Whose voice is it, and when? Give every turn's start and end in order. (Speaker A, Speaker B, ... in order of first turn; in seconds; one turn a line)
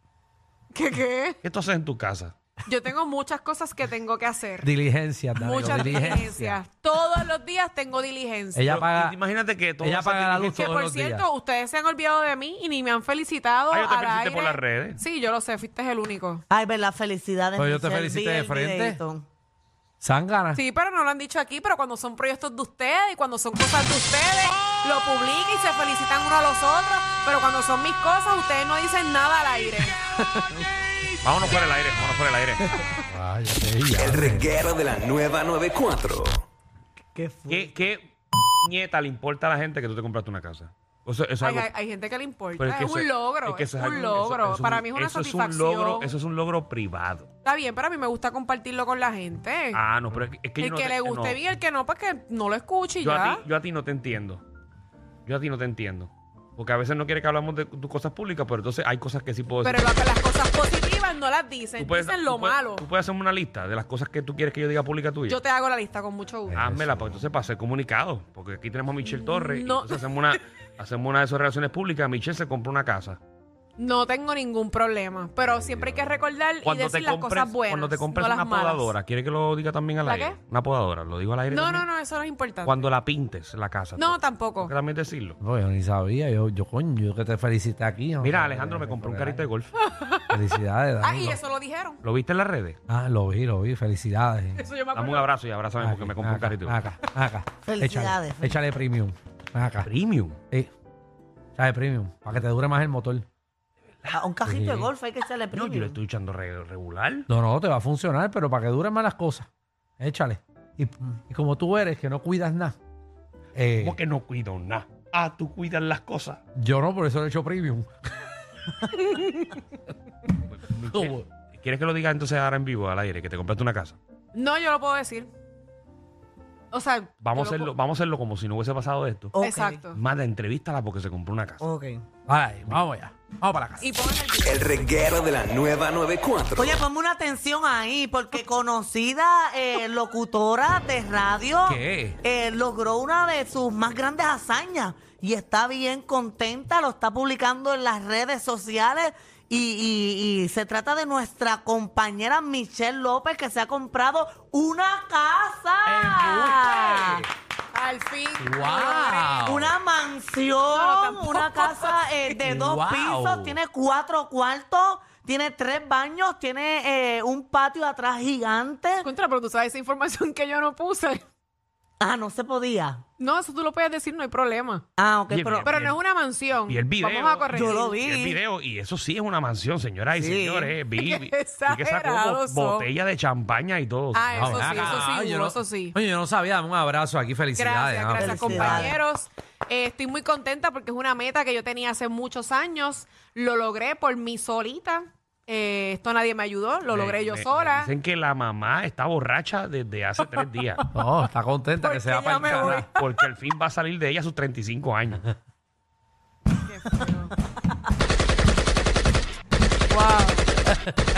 Speaker A: 0.7-1.4
Speaker B: 1.4-2.3
Speaker A: 2.7-4.7
Speaker C: 4.6-6.6
Speaker A: 5.3-8.7
Speaker C: 8.5-9.2
Speaker B: 8.7-10.7
Speaker C: 9.8-11.2
Speaker A: 10.5-16.4
Speaker B: 13.7-15.0
Speaker D: 16.5-19.3
Speaker C: 17.6-19.0
Speaker C: 20.0-20.6
Speaker A: 20.6-30.0
Speaker C: 30.3-30.6
Speaker B: 31.2-32.7
Speaker C: 33.1-34.5
Speaker E: 34.0-36.4
Speaker D: 37.1-37.7
Speaker B: 37.5-41.7
Speaker A: 41.4-46.1
Speaker B: 42.6-47.3
Speaker A: 47.5-49.8
Speaker B: 49.7-51.4
Speaker A: 50.6-53.4
Speaker B: 53.0-54.4
Speaker B: 55.3-59.9
Speaker A: 59.6-62.9
Speaker B: 61.8-65.4
Speaker A: 65.3-66.6
Speaker C: 66.5-67.2
Speaker B: 66.5-73.2
Speaker A: 69.1-70.4
Speaker A: 73.8-78.9
Speaker B: 75.4-81.9
Speaker A: 80.0-80.4
Speaker A: 81.5-82.8
Speaker B: 82.7-85.4
Speaker A: 84.0-84.7
Speaker C: 85.4-89.5
Speaker B: 88.2-89.7
Speaker A: 89.8-90.3
Speaker C: 90.3-91.4
Speaker A: 91.0-92.0
Speaker B: 92.0-92.8
Speaker C: 92.9-94.6
Speaker A: 94.6-95.3
Speaker B: 94.9-96.8
Speaker C: 95.8-99.9
Speaker D: 97.7-98.6
Speaker B: 99.8-100.4
Speaker C: 101.6-103.3
Speaker D: 104.1-106.0
Speaker C: 104.5-104.9
Speaker B: 105.5-107.3
Speaker C: 107.3-109.5
Speaker C: 110.0-112.8
Speaker C: 113.5-114.0
Speaker B: 113.8-116.4
Speaker C: 116.5-117.9
Speaker A: 118.9-119.6
Speaker B: 120.5-124.0
Speaker C: 120.9-121.3
Speaker A: 124.3-125.3
Speaker A: 126.7-127.7
Speaker B: 127.2-129.4
Speaker D: 129.3-129.8
Speaker A: 129.4-130.0
Speaker B: 129.9-131.6
Speaker D: 131.6-132.0
Speaker C: 132.3-133.8
Speaker A: 133.8-134.7
Speaker E: 134.4-136.8
Speaker D: 136.6-157.2
Speaker C: 141.7-142.2
Speaker C: 155.9-157.3
Speaker A: 157.7-159.6
Speaker C: 158.4-159.7
Speaker D: 159.4-169.1
Speaker A: 160.7-162.0
Speaker C: 162.4-163.6
Speaker A: 169.0-171.2
Speaker D: 172.0-173.0
Speaker A: 173.2-174.8
Speaker D: 175.0-175.7
Speaker B: 175.3-176.0
Speaker A: 175.7-178.0
Speaker B: 176.7-185.1
Speaker D: 177.5-178.4
Speaker D: 180.1-180.8
Speaker A: 181.0-182.9
Speaker A: 184.1-186.0
Speaker C: 184.4-188.9
Speaker A: 187.6-197.9
Speaker D: 188.1-189.0
Speaker B: 196.9-200.8
Speaker C: 200.9-202.8
Speaker A: 201.8-202.9
Speaker B: 202.7-205.2
Speaker A: 206.6-207.3
Speaker A: 209.9-210.5